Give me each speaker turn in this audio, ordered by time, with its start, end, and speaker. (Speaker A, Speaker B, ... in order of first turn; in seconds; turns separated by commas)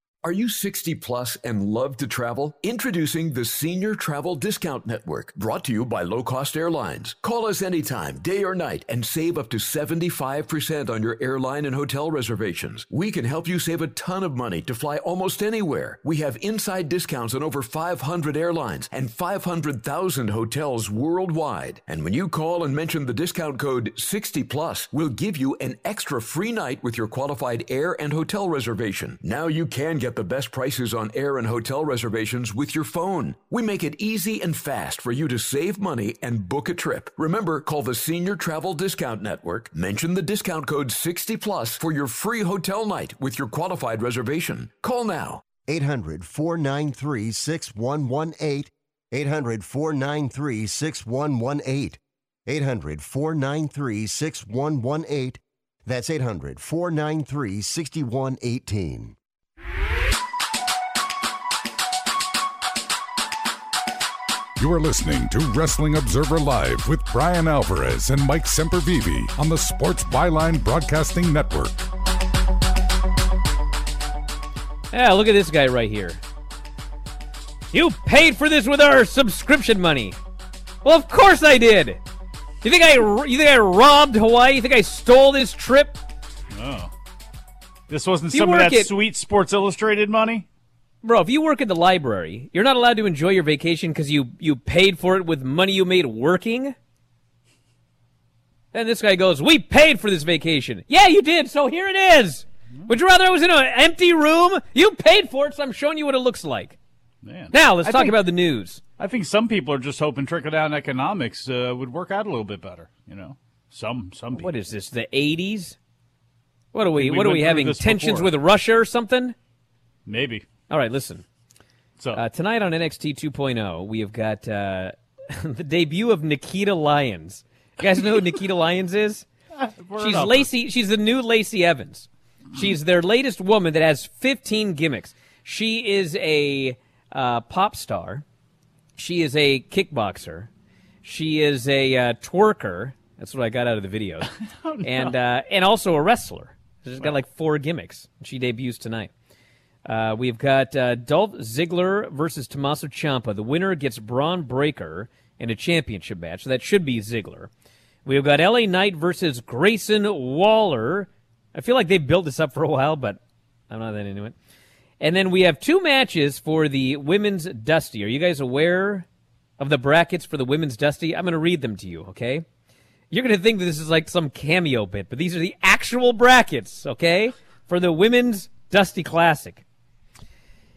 Speaker A: 0.2-45.4, Speaker B: 45.7-59.2, Speaker C: 64.6-71.8, Speaker D: 74.9-76.2, Speaker D: 77.7-80.2, Speaker D: 80.8-82.0, Speaker D: 82.6-86.0, Speaker E: 86.5-86.9, Speaker E: 87.9-90.5, Speaker D: 88.3-88.9, Speaker D: 91.0-96.8, Speaker D: 98.7-106.8, Speaker E: 107.2-108.2, Speaker D: 107.5-108.8, Speaker E: 109.0-114.5, Speaker D: 114.4-115.8, Speaker D: 116.7-119.4, Speaker E: 117.0-118.3, Speaker E: 120.1-120.5, Speaker D: 120.7-121.2, Speaker D: 122.1-129.3, Speaker E: 129.6-130.5, Speaker D: 130.0-138.2, Speaker D: 139.0-140.5, Speaker D: 141.0-149.1, Speaker E: 144.6-145.2, Speaker D: 149.8-157.5, Speaker D: 158.1-164.3, Speaker D: 165.0-169.1, Speaker D: 169.6-172.4, Speaker D: 173.1-179.6